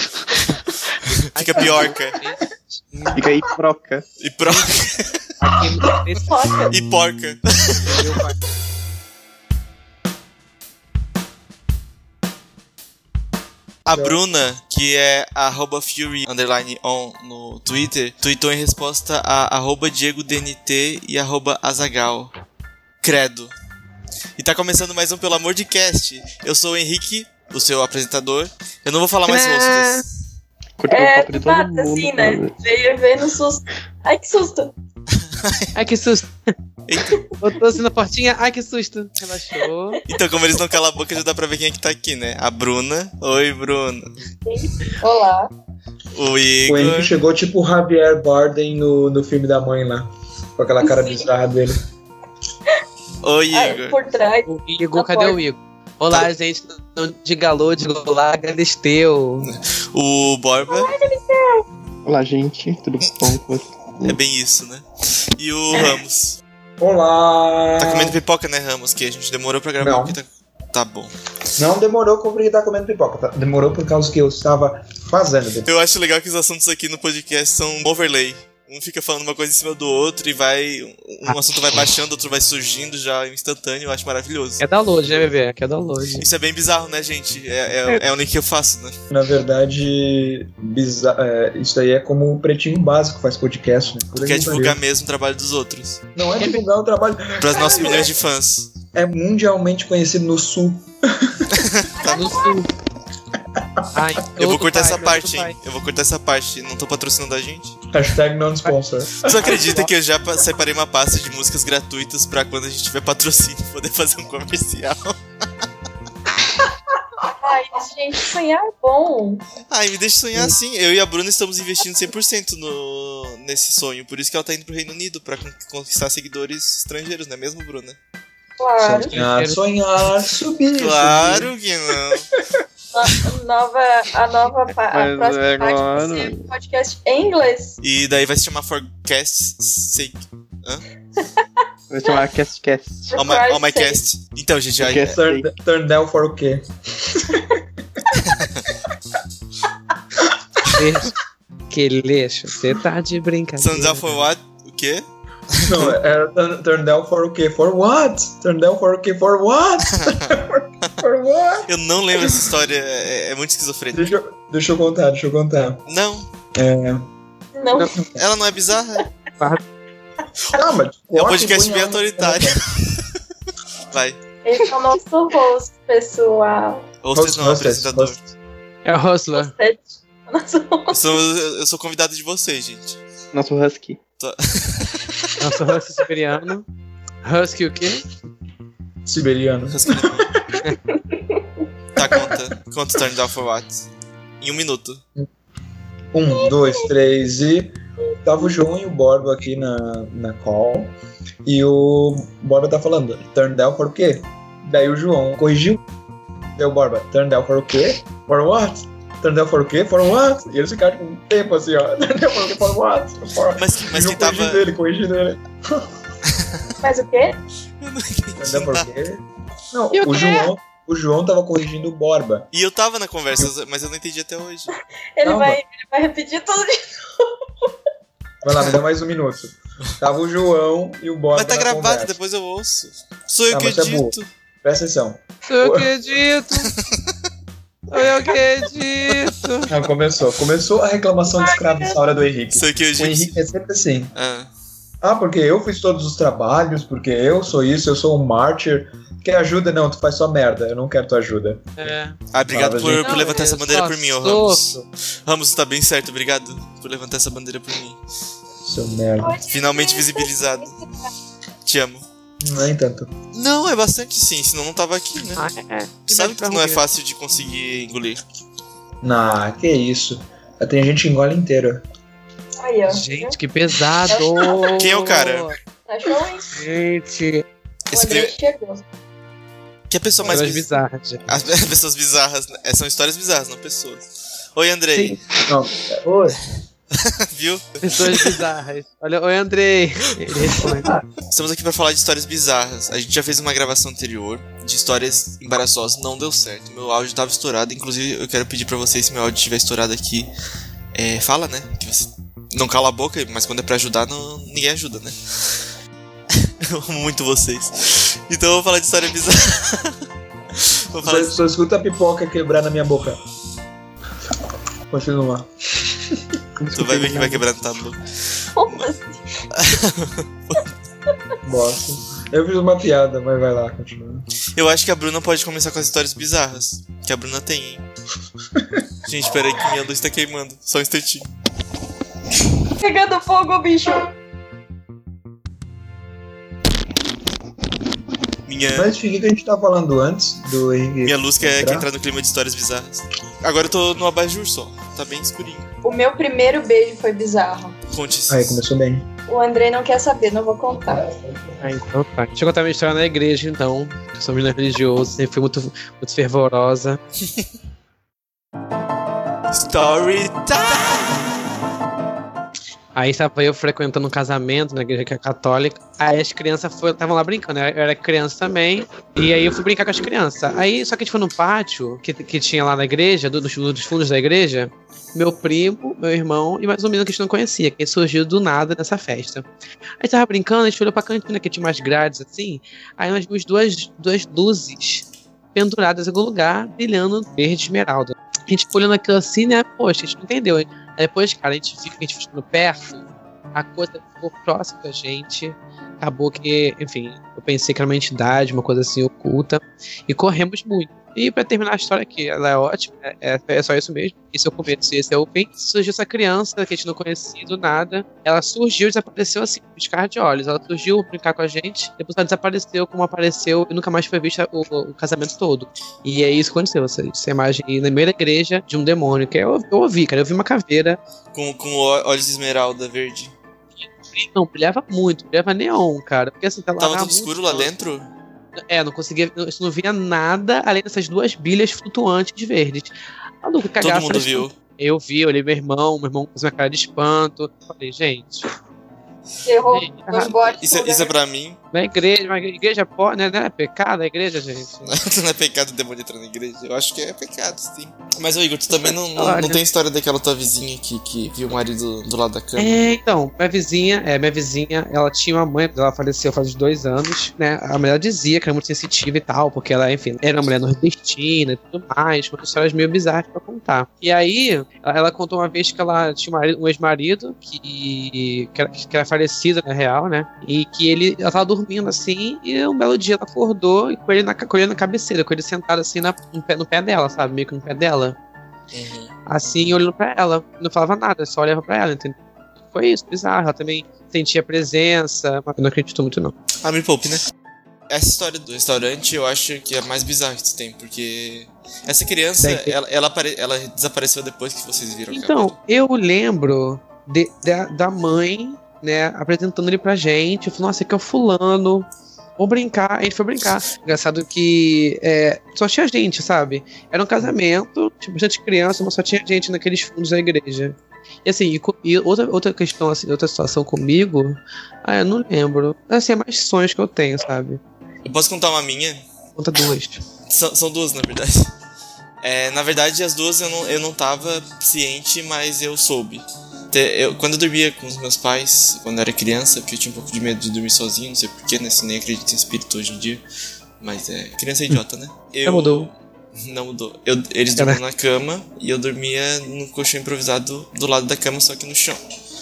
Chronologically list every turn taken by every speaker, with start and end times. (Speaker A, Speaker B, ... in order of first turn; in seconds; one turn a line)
Speaker A: 0.7-2.2
Speaker B: 1.4-3.2
Speaker C: 3.1-4.1
Speaker A: 4.2-5.2
Speaker B: 4.5-4.7
Speaker B: 5.4-6.3
Speaker D: 6.2-6.7
Speaker A: 6.7-8.0
Speaker B: 7.9-8.4
Speaker A: 13.8-22.3
Speaker E: 13.9-14.2
Speaker A: 23.0-23.5
Speaker A: 24.4-30.1
Speaker B: 29.3-30.0
Speaker C: 30.8-32.6
Speaker D: 30.9-34.7
Speaker A: 35.2-35.7
Speaker B: 35.8-36.3
Speaker A: 36.9-37.3
Speaker B: 37.3-40.0
Speaker A: 40.1-44.1
Speaker D: 44.5-45.5
Speaker A: 46.1-47.1
Speaker E: 46.7-51.8
Speaker D: 50.8-51.3
Speaker A: 53.2-54.0
Speaker D: 53.5-55.4
Speaker B: 54.5-59.5
Speaker A: 59.5-61.0
Speaker D: 60.6-61.6
Speaker C: 62.0-64.2
Speaker A: 64.0-66.4
Speaker E: 66.8-68.2
Speaker A: 67.8-71.1
Speaker E: 69.8-70.2
Speaker E: 71.6-75.7
Speaker A: 75.7-84.6
Speaker B: 84.6-86.3
Speaker A: 86.2-89.0
Speaker E: 89.1-94.8
Speaker A: 94.2-96.0
Speaker E: 96.2-98.1
Speaker A: 97.4-98.7
Speaker D: 97.7-98.0
Speaker E: 98.9-101.5
Speaker A: 101.5-101.9
Speaker D: 102.0-102.6
Speaker B: 102.0-102.7
Speaker E: 103.6-103.9
Speaker B: 103.9-105.5
Speaker A: 104.4-107.8
Speaker E: 107.9-109.4
Speaker A: 109.2-115.2
Speaker B: 109.4-109.9
Speaker D: 117.2-119.5
Speaker A: 119.7-128.0
Speaker D: 128.6-129.2
Speaker E: 128.8-131.5
Speaker B: 128.9-129.6
Speaker A: 130.8-132.3
Speaker D: 132.9-137.8
Speaker C: 134.9-136.5
Speaker A: 137.8-140.8
Speaker D: 141.2-141.4
Speaker C: 141.9-143.1
Speaker D: 143.1-144.0
Speaker A: 143.1-145.2
Speaker C: 144.8-145.5
Speaker E: 145.0-147.6
Speaker A: 148.2-148.7
Speaker B: 150.7-151.2
Speaker B: 151.7-154.3
Speaker A: 153.6-155.9
Speaker E: 155.6-162.5
Speaker A: 159.9-161.0
Speaker A: 161.7-164.1
Speaker E: 163.9-165.8
Speaker A: 165.9-166.3
Speaker E: 166.5-167.1
Speaker D: 167.6-167.9
Speaker A: 168.2-169.1
Speaker E: 170.5-172.6
Speaker A: 171.1-173.1
Speaker A: 173.9-174.2
Speaker D: 174.4-176.9
Speaker A: 177.0-178.2
Speaker E: 177.1-178.2
Speaker B: 178.8-179.5
Speaker D: 179.3-181.2
Speaker A: 180.9-183.0
Speaker C: 183.3-184.0
Speaker A: 184.2-185.4
Speaker B: 185.4-186.7
Speaker B: 187.2-188.1
Speaker E: 189.1-190.6
Speaker A: 189.7-190.3
Speaker D: 190.9-191.4
Speaker A: 191.9-193.9
Speaker A: 194.4-195.0
Speaker E: 196.1-205.8
Speaker D: 196.3-196.8
Speaker E: 206.6-215.9
Speaker A: 213.6-214.7
Speaker A: 216.3-216.6
Speaker D: 216.8-217.4
Speaker A: 217.8-218.9
Speaker E: 218.4-222.5
Speaker D: 219.9-220.5
Speaker A: 222.5-224.7
Speaker D: 225.2-227.3
Speaker E: 225.2-225.6
Speaker E: 228.4-232.2
Speaker A: 231.3-234.3
Speaker E: 233.5-235.9
Speaker B: 235.5-236.7
Speaker A: 236.6-237.1
Speaker B: 237.9-239.7
Speaker E: 239.7-244.1
Speaker D: 241.3-242.1
Speaker A: 242.5-243.4
Speaker A: 244.1-244.5
Speaker E: 245.0-251.9
Speaker B: 251.8-252.2
Speaker A: 252.3-258.0
Speaker E: 252.5-253.3
Speaker B: 253.0-254.8
Speaker E: 258.6-259.4
Speaker D: 259.2-261.1
Speaker A: 259.5-260.7
Speaker A: 261.6-262.1
Speaker E: 262.4-263.1
Speaker A: 263.3-265.5
Speaker B: 265.4-266.8
Speaker A: 266.1-268.2
Speaker E: 269.0-271.8
Speaker D: 272.6-273.4
Speaker B: 272.9-275.6
Speaker D: 274.1-274.8
Speaker A: 274.7-275.5
Speaker D: 275.9-276.5
Speaker B: 276.5-277.4
Speaker A: 277.9-278.3
Speaker D: 277.9-278.8
Speaker A: 279.9-280.7
Speaker B: 280.3-281.3
Speaker A: 281.3-285.2
Speaker B: 284.9-285.2
Speaker E: 285.5-286.4
Speaker A: 286.9-288.4
Speaker B: 287.8-291.0
Speaker A: 291.3-300.3
Speaker A: 300.9-305.6
Speaker A: 306.4-310.0
Speaker A: 310.6-311.4
Speaker E: 311.0-313.2
Speaker E: 314.9-316.4
Speaker C: 316.6-317.5
Speaker A: 316.7-318.9
Speaker D: 318.6-319.2
Speaker A: 319.5-320.7
Speaker E: 321.4-324.2
Speaker A: 324.6-327.8
Speaker E: 328.6-328.8
Speaker A: 329.1-331.3
Speaker D: 332.8-334.1
Speaker A: 338.5-338.9
Speaker E: 338.7-341.9
Speaker A: 341.1-345.7
Speaker D: 345.8-347.8
Speaker A: 347.9-348.6
Speaker E: 348.3-349.1
Speaker D: 349.3-351.1
Speaker B: 351.6-357.0
Speaker A: 359.5-361.3
Speaker B: 362.9-379.5
Speaker B: 380.0-421.0
Speaker A: 421.3-423.3
Speaker B: 423.8-427.7
Speaker A: 426.8-428.1
Speaker B: 428.6-438.5
Speaker A: 433.8-434.5
Speaker D: 439.4-441.1
Speaker B: 439.7-440.3
Speaker A: 440.5-441.6
Speaker B: 441.7-445.0
Speaker A: 444.9-452.8
Speaker B: 449.2-449.6
Speaker B: 452.6-478.2
Speaker A: 478.7-479.1
Speaker B: 479.3-482.2
Speaker B: 482.7-486.4
Speaker A: 486.6-487.2
Speaker A: 487.9-495.6
Speaker B: 495.1-517.6
Speaker A: 518.0-519.0
Speaker B: 519.4-520.0
Speaker A: 520.3-521.5
Speaker A: 522.2-533.2
Speaker A: 533.8-542.0
Speaker B: 535.5-535.9